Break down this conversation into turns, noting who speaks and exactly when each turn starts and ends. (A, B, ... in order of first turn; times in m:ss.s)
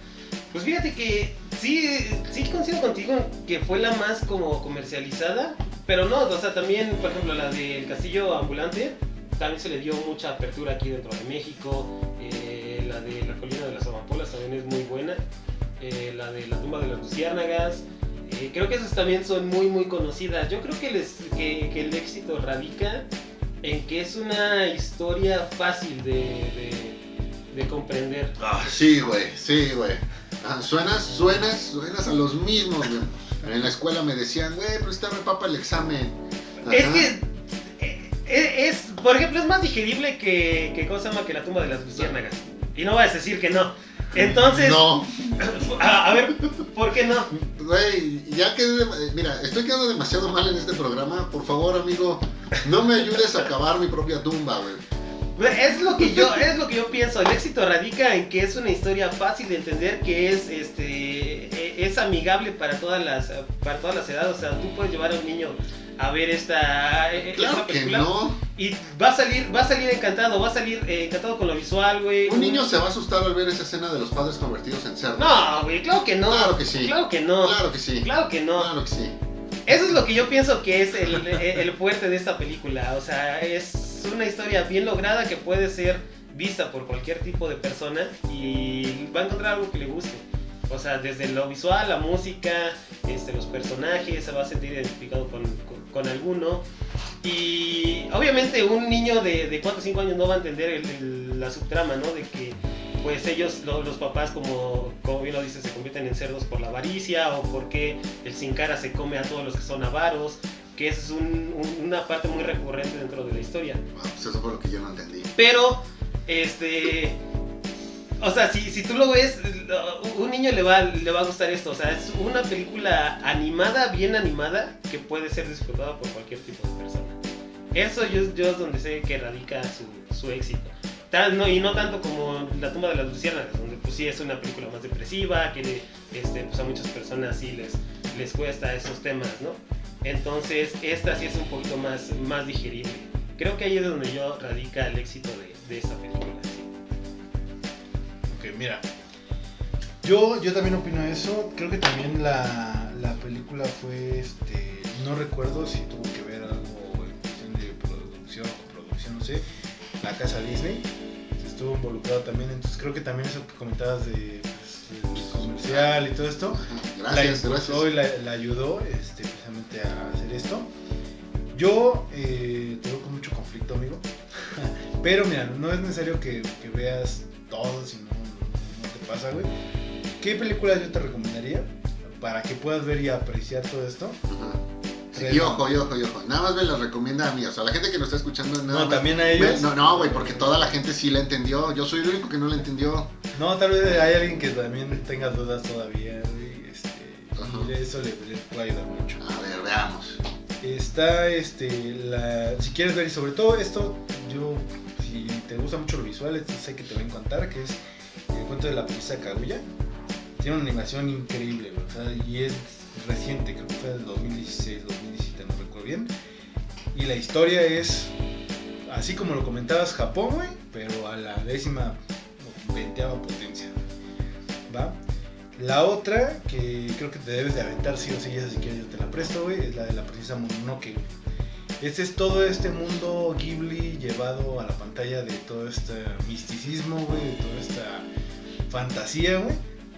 0:00.5-0:15.2 A
0:15.8-0:23.1 A
0:23.6-0:27.0 A
0:27.5-0:28.4 A
0:28.4-0:37.1 B
0:36.6-0:47.3 A
0:44.1-0:46.5 B
0:47.3-0:54.8 B
0:55.4-1:12.7 A
0:56.0-0:56.3 B
1:07.2-1:08.4 B
1:12.2-1:15.4 B
1:15.2-1:18.7 A
1:16.3-1:19.2 B
1:19.7-1:36.6 A
1:37.2-1:53.8 A
1:53.9-1:55.3 B
1:55.4-1:57.2 A
1:58.2-2:07.2 A
2:07.7-2:26.7 A
2:28.3-2:28.8 C
2:30.0-2:39.4 C
2:40.0-2:50.7 C
2:45.1-2:46.0 B
2:46.5-2:47.9 B
2:51.5-2:59.5 C
3:00.2-3:04.2 C
3:04.3-3:04.6 B
3:05.1-3:13.1 B
3:05.1-3:05.6 C
3:08.7-3:10.8 C
3:13.3-3:19.2 C
3:17.4-3:17.7 B
3:19.2-3:20.2 B
3:20.6-3:27.8 C
3:28.3-3:29.6 C
3:30.4-3:36.1 C
3:36.9-3:38.1 C
3:38.8-3:43.8 C
3:44.7-3:45.0 C
3:45.5-3:51.0 C
3:51.8-3:58.1 C
3:58.7-3:59.6 C